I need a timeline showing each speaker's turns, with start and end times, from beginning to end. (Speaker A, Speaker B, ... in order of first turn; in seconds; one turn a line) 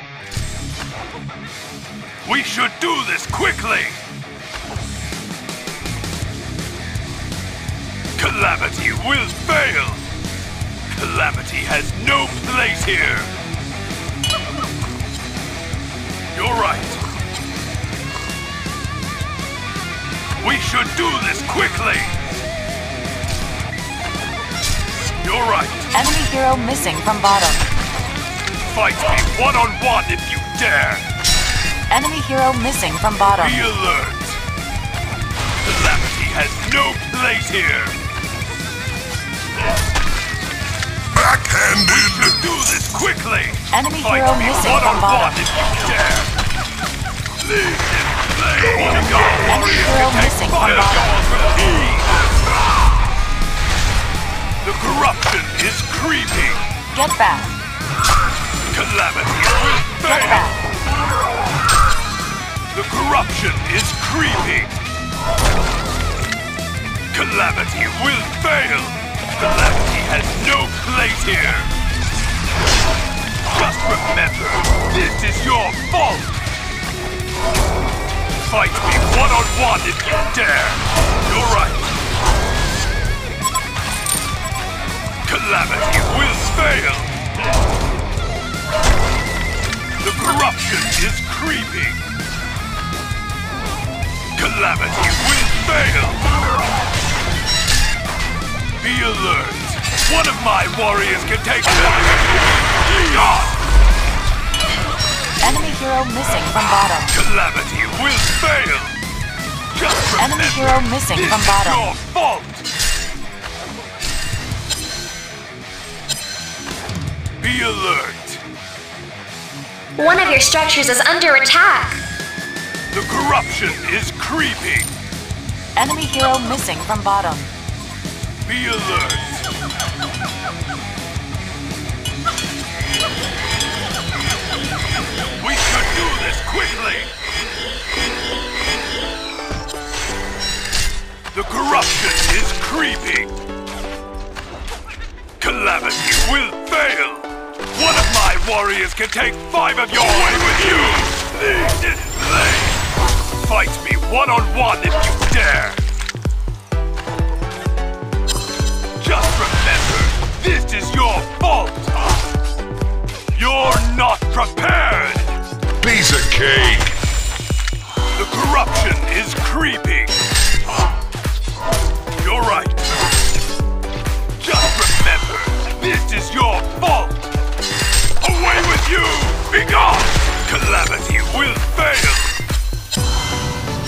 Speaker A: 2.2-4.0
Speaker A: 8.2-10.1
Speaker A: 10.9-13.3
Speaker A: 16.3-17.0
Speaker A: 20.4-22.1
Speaker A: 25.2-26.0
Speaker B: 25.9-27.6
Speaker A: 28.6-31.1
Speaker B: 31.9-33.6
Speaker A: 33.4-34.4
Speaker A: 35.6-38.0
Speaker C: 41.2-41.9
Speaker A: 41.7-46.3
Speaker B: 43.7-45.4
Speaker A: 47.4-52.1
Speaker C: 48.9-49.2
Speaker B: 49.3-51.1
Speaker A: 54.6-56.6
Speaker B: 56.9-57.6
Speaker A: 58.7-60.5
Speaker B: 60.1-60.6
Speaker A: 62.7-64.8
Speaker A: 67.1-71.7
Speaker A: 73.5-76.4
Speaker A: 78.4-82.0
Speaker A: 85.2-87.2
Speaker A: 90.0-92.0
Speaker A: 94.3-96.3
Speaker A: 98.8-103.5
Speaker B: 105.4-107.2
Speaker A: 107.1-109.0
Speaker A: 109.7-112.7
Speaker B: 110.2-111.9
Speaker A: 117.4-118.4
Speaker D: 120.0-122.0
Speaker A: 122.9-124.9
Speaker B: 125.8-127.5
Speaker A: 128.4-129.5
Speaker A: 135.4-137.1
Speaker A: 141.3-143.3
Speaker A: 145.4-152.8
Speaker A: 153.3-155.9
Speaker A: 159.0-161.9
Speaker A: 163.3-165.3
Speaker C: 165.8-166.9
Speaker A: 168.1-170.2
Speaker A: 172.2-172.9
Speaker A: 174.4-177.3
Speaker A: 178.2-182.4